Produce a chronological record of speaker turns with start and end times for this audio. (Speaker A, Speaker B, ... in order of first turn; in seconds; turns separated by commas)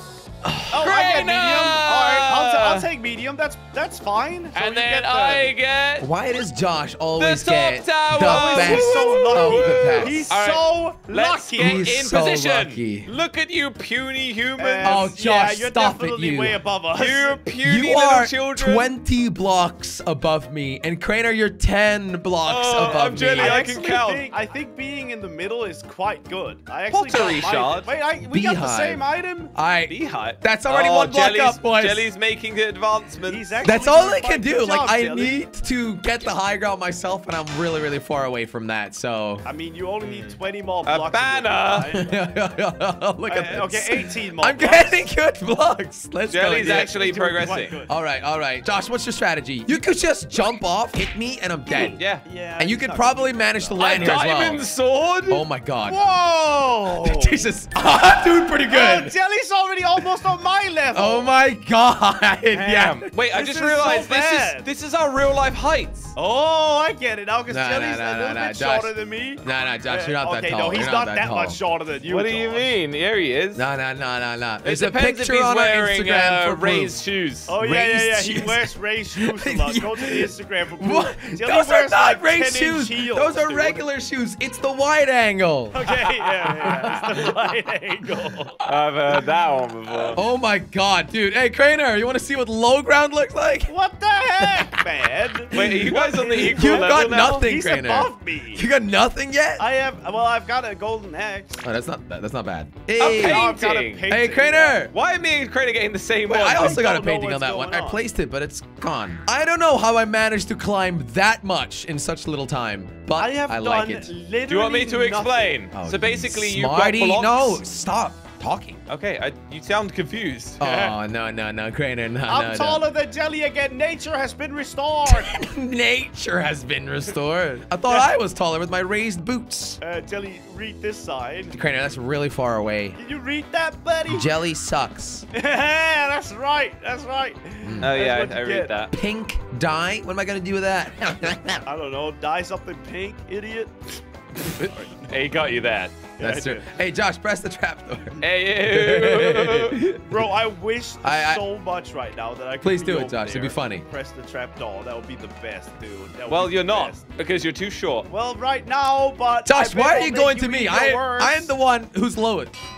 Speaker A: 0.4-0.8, Speaker B: 0.7-5.5, Speaker C: 0.8-2.9, Speaker C: 4.5-6.1, Speaker A: 6.0-10.3, Speaker C: 7.1-15.0, Speaker B: 8.2-11.9, Speaker A: 11.6-13.1, Speaker B: 14.6-17.4, Speaker A: 14.8-16.6, Speaker C: 16.9-18.9, Speaker A: 17.6-23.7, Speaker C: 22.4-24.3, Speaker B: 22.9-29.5, Speaker C: 26.9-27.9, Speaker A: 28.2-32.1, Speaker C: 29.9-33.6, Speaker B: 33.3-35.4, Speaker A: 33.6-39.4, Speaker B: 39.4-42.2, Speaker C: 40.0-41.9, Speaker A: 41.7-47.0, Speaker B: 43.3-45.1, Speaker C: 46.3-47.8, Speaker B: 46.5-47.9, Speaker A: 47.9-52.0, Speaker B: 51.7-54.2, Speaker C: 51.9-52.2, Speaker A: 52.6-54.6, Speaker C: 53.8-55.5, Speaker A: 55.3-56.0, Speaker B: 55.9-57.5, Speaker A: 57.0-59.1, Speaker B: 58.6-61.3, Speaker A: 60.9-63.0, Speaker C: 62.5-66.1, Speaker B: 63.3-64.7, Speaker B: 66.1-72.7, Speaker A: 67.5-71.6, Speaker C: 72.0-73.6, Speaker A: 73.5-77.0, Speaker C: 74.6-77.5, Speaker B: 77.5-83.8, Speaker A: 77.6-85.8, Speaker B: 85.7-88.5, Speaker C: 85.8-87.3, Speaker A: 86.6-87.3, Speaker C: 88.6-90.2, Speaker A: 90.1-93.7, Speaker B: 93.7-98.7, Speaker A: 94.4-94.8, Speaker A: 95.5-95.9, Speaker C: 95.5-97.5, Speaker A: 96.4-99.6, Speaker B: 99.6-101.6, Speaker A: 101.6-103.5, Speaker C: 103.0-104.1, Speaker B: 103.1-104.8, Speaker A: 104.1-104.9, Speaker C: 104.8-106.9, Speaker A: 106.3-114.1, Speaker B: 106.3-108.0, Speaker B: 113.1-115.6, Speaker C: 114.5-117.6, Speaker A: 115.7-118.8, Speaker C: 118.9-120.6, Speaker A: 120.6-122.8, Speaker B: 120.6-121.0, Speaker B: 122.3-125.4, Speaker A: 125.1-129.8, Speaker B: 127.8-128.2, Speaker B: 129.8-131.6, Speaker A: 131.5-133.0, Speaker B: 133.0-134.3, Speaker A: 134.1-135.2, Speaker B: 135.3-138.7, Speaker A: 137.6-137.9, Speaker C: 137.8-138.9, Speaker A: 138.9-141.6, Speaker B: 141.7-145.1, Speaker C: 144.6-146.1, Speaker B: 146.1-146.7, Speaker A: 146.2-150.0, Speaker C: 148.2-149.9, Speaker B: 150.0-157.0, Speaker A: 151.0-151.4, Speaker A: 152.6-153.8, Speaker C: 156.3-158.1, Speaker B: 158.1-161.5, Speaker A: 159.4-162.5